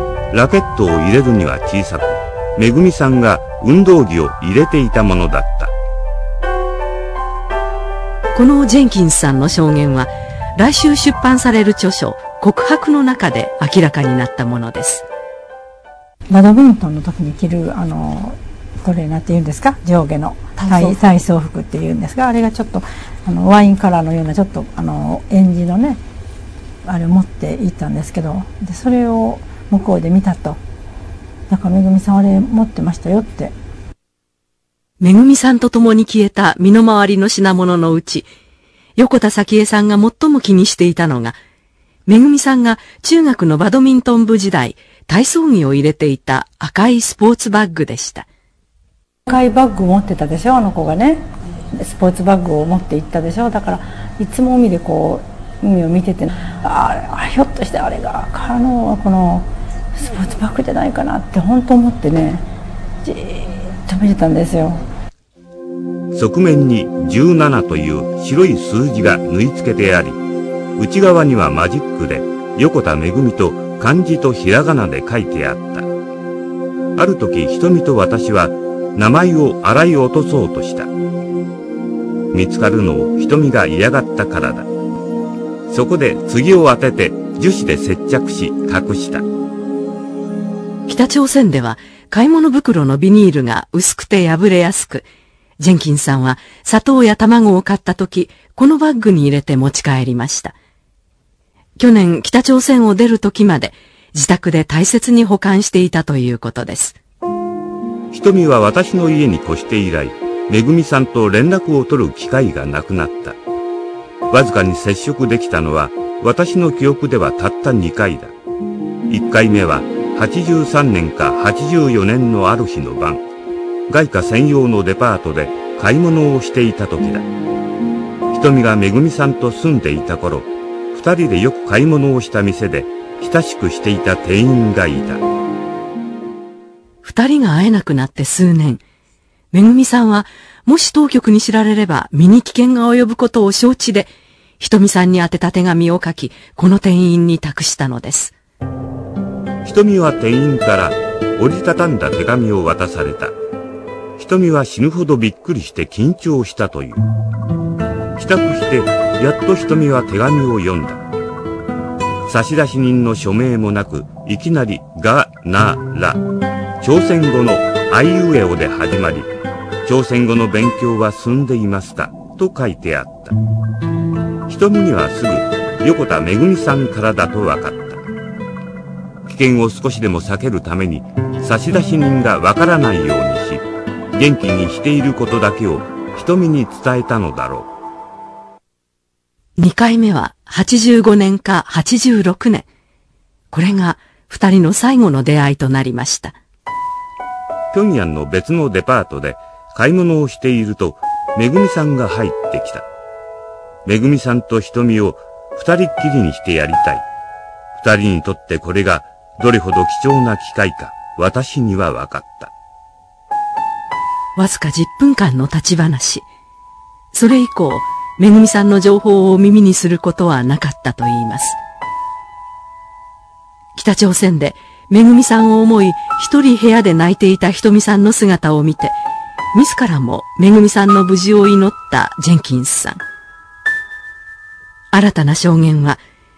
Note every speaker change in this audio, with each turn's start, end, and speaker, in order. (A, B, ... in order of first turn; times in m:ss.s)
0:00.3-0:05.7 A
0:08.4-0:15.0 B
0:16.3-0:26.0 C
0:26.8-0:30.6 C
0:31.5-0:33.6 C
0:35.0-0:38.3 B
0:39.0-0:41.4 B
0:42.1-0:48.3 B
0:49.3-1:02.5 C
1:03.0-1:04.8 C
1:06.1-1:10.2 A
1:10.8-1:15.9 A
1:17.0-1:20.9 A
1:22.3-1:24.7 A
1:25.7-1:29.3 A
1:30.9-1:35.1 B
1:35.6-1:40.5 B
1:41.8-1:47.0 B
1:48.1-1:53.4 A
1:54.3-1:58.3 A
1:59.1-2:03.2 A
2:03.9-2:07.3 A
2:08.3-2:15.2 A
2:17.0-2:18.8 B
2:19.5-2:28.4 B
2:29.6-2:33.4 A
2:34.2-2:37.1 A
2:38.2-2:41.0 A
2:42.2-2:46.2 A
2:46.8-2:49.3 A
2:49.8-2:53.4 A
2:54.5-2:58.0 A
2:59.3-3:07.7 A
3:09.6-3:12.7 B
3:13.5-3:16.4 B
3:17.7-3:22.9 A
3:23.8-3:27.0 A
3:27.8-3:32.5 A
3:34.4-3:36.3 B
3:37.1-3:41.6 B
3:43.8-3:49.0 B
3:49.5-3:53.0 B
3:54.9-3:56.0 B